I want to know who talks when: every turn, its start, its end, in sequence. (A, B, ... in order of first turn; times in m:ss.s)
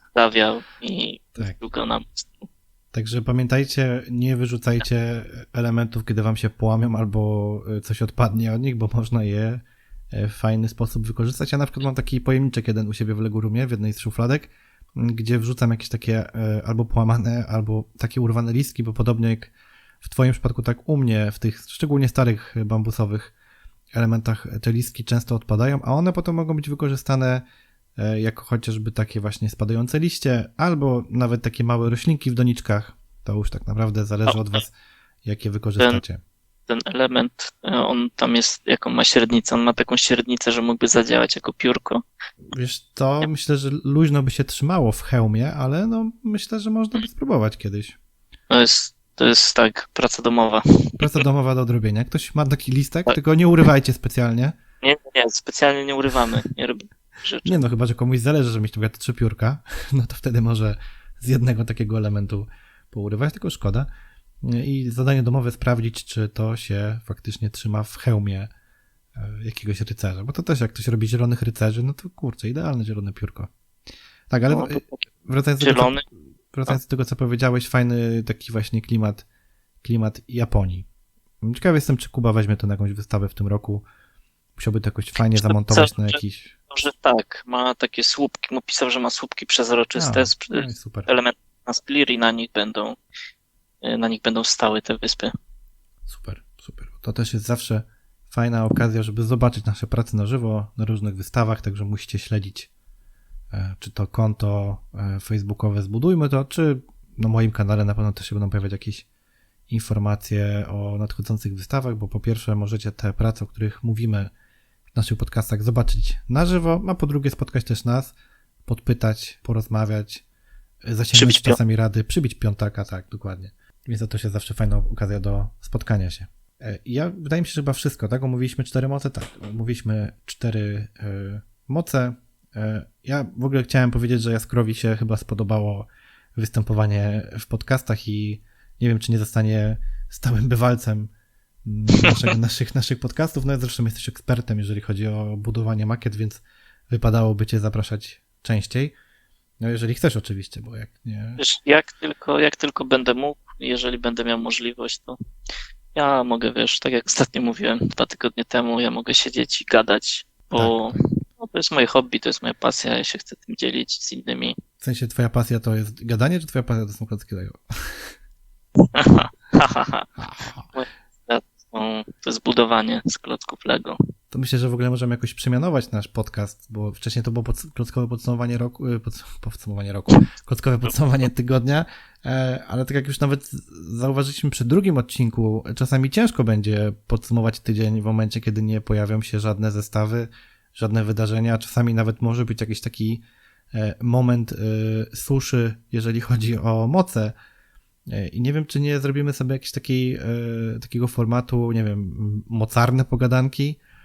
0:00.1-0:02.5 A
0:02.9-0:23.3 B
0:23.9-0:27.4 B
0:28.0-0:34.7 B
0:35.2-0:36.2 B
0:36.7-0:42.0 A
0:42.5-0:48.0 B
0:48.5-0:51.2 A
0:51.0-0:54.6 B
0:54.8-0:57.6 A
0:57.4-1:03.9 B
1:04.4-1:08.5 B
1:09.1-1:13.5 B
1:14.3-1:16.0 B
1:14.5-1:15.0 A
1:15.6-1:16.0 A
1:16.5-1:19.2 B
1:19.8-1:20.9 B
1:21.4-1:23.8 B
1:24.6-1:26.6 B
1:25.2-1:26.2 A
1:26.7-1:33.0 A
1:30.0-1:31.1 B
1:33.8-1:35.3 A
1:36.1-1:42.7 B
1:43.5-1:49.0 B
1:49.7-1:54.3 B
1:54.9-2:00.2 B
2:00.9-2:21.1 B
2:01.1-2:01.6 A
2:21.6-2:28.9 B
2:29.6-2:31.4 B
2:31.4-2:35.2 A
2:35.9-2:44.6 A
2:40.5-2:41.0 B
2:44.8-2:48.1 B
2:48.9-2:50.1 A
2:50.2-2:50.7 B
2:50.7-2:54.0 A
2:54.3-3:17.3 B
3:18.1-3:23.8 B